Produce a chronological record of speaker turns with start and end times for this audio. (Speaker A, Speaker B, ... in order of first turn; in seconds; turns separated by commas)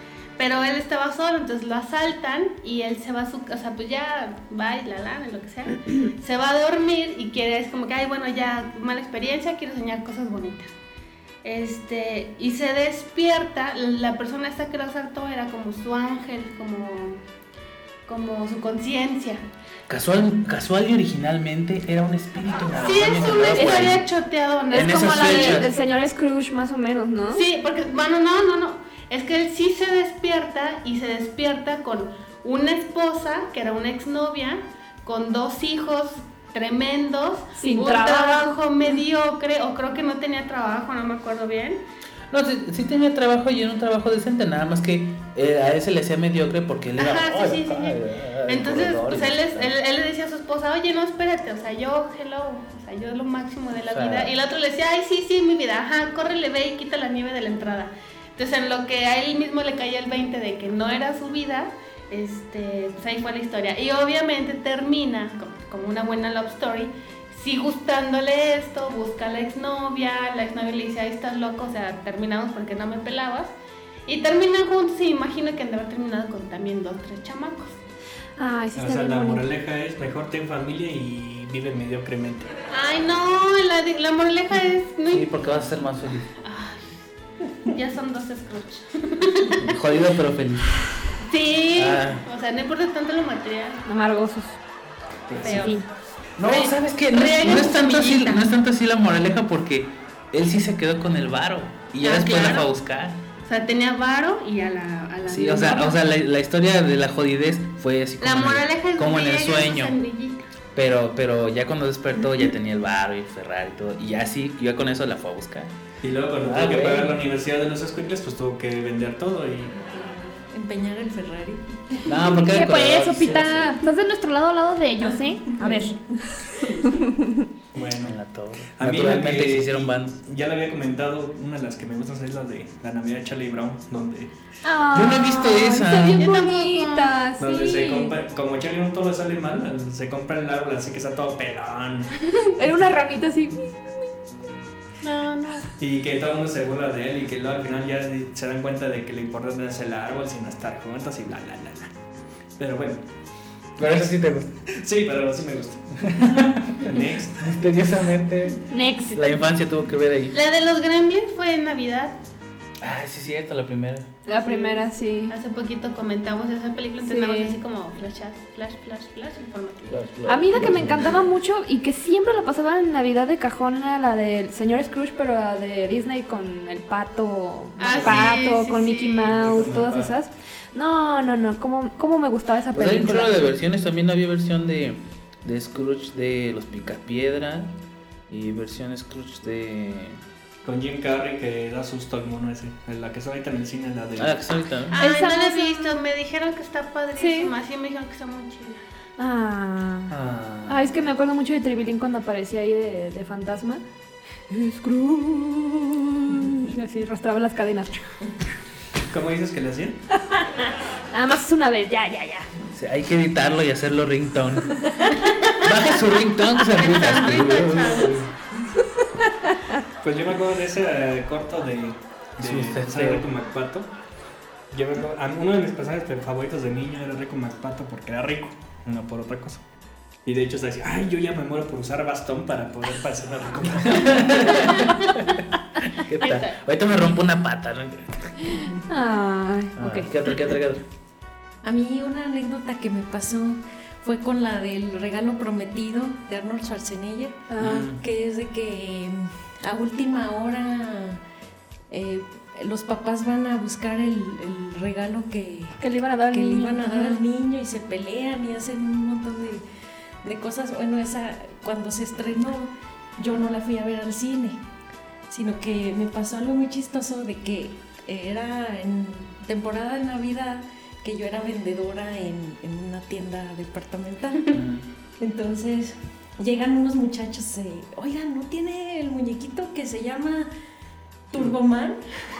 Speaker A: 0.4-10.8, Speaker A: 11.4-17.2, Speaker A: 18.1-19.4, Speaker B: 19.9-24.1, Speaker A: 22.8-25.7, Speaker C: 23.5-23.9, Speaker B: 24.7-25.7, Speaker C: 24.7-27.4, Speaker A: 27.3-41.8, Speaker C: 37.6-38.6, Speaker B: 42.3-49.7, Speaker A: 47.0-73.5, Speaker B: 53.9-54.3, Speaker A: 74.1-77.7, Speaker C: 78.4-79.4, Speaker D: 78.7-82.5, Speaker A: 82.7-85.4, Speaker B: 85.1-86.3, Speaker A: 86.4-86.9, Speaker A: 87.6-89.7, Speaker B: 89.6-90.7, Speaker A: 91.2-93.8, Speaker B: 91.7-92.2, Speaker C: 93.8-94.6, Speaker B: 95.3-95.7, Speaker A: 95.4-95.8, Speaker C: 95.4-95.8, Speaker B: 96.4-103.2, Speaker A: 96.4-98.4, Speaker A: 102.0-102.7, Speaker A: 103.4-106.0, Speaker B: 105.2-110.0, Speaker A: 108.2-110.4, Speaker B: 110.7-115.8, Speaker D: 116.0-119.8, Speaker B: 116.4-117.2, Speaker E: 119.8-122.1, Speaker B: 122.0-123.7, Speaker C: 122.5-127.4, Speaker E: 125.1-126.0, Speaker D: 127.7-128.2, Speaker B: 128.0-130.2, Speaker D: 128.8-134.3, Speaker C: 134.6-138.1, Speaker B: 134.9-136.3, Speaker A: 136.2-137.2, Speaker D: 137.4-142.1, Speaker C: 142.4-144.1, Speaker A: 145.0-145.7, Speaker D: 145.8-151.9, Speaker D: 152.6-153.0, Speaker D: 153.8-154.1, Speaker B: 153.8-154.5, Speaker D: 154.7-157.7, Speaker B: 156.1-160.4, Speaker C: 158.7-159.3, Speaker A: 160.3-162.2, Speaker B: 162.8-164.1, Speaker C: 164.3-165.3, Speaker A: 164.3-170.0, Speaker C: 167.0-167.6, Speaker B: 169.9-171.2, Speaker C: 170.3-183.4, Speaker A: 177.8-179.3, Speaker D: 177.9-178.3, Speaker D: 179.3-180.1, Speaker B: 182.7-187.7, Speaker B: 188.3-190.2, Speaker D: 190.6-194.4, Speaker B: 194.2-195.0, Speaker A: 194.9-198.8, Speaker C: 194.9-196.0, Speaker C: 197.2-197.5, Speaker C: 199.2-200.1, Speaker B: 200.1-200.6, Speaker D: 200.1-200.6, Speaker C: 200.7-203.8, Speaker C: 204.5-208.1, Speaker D: 209.1-210.0, Speaker C: 210.3-212.5, Speaker B: 212.7-214.9, Speaker B: 215.6-218.3, Speaker A: 216.7-218.2, Speaker C: 219.4-219.8, Speaker D: 220.0-223.9, Speaker B: 222.4-223.2, Speaker D: 224.7-229.6, Speaker D: 230.2-234.7, Speaker B: 233.9-235.2, Speaker B: 235.9-238.4, Speaker A: 236.2-236.6, Speaker C: 238.6-240.1, Speaker B: 239.8-240.8, Speaker E: 241.6-251.2, Speaker C: 247.5-247.9, Speaker B: 247.6-248.0, Speaker E: 251.9-255.8, Speaker C: 255.8-257.2, Speaker E: 256.3-259.6, Speaker E: 260.2-264.6, Speaker E: 265.3-274.6, Speaker B: 274.5-274.9, Speaker E: 275.2-280.5, Speaker E: 281.3-282.0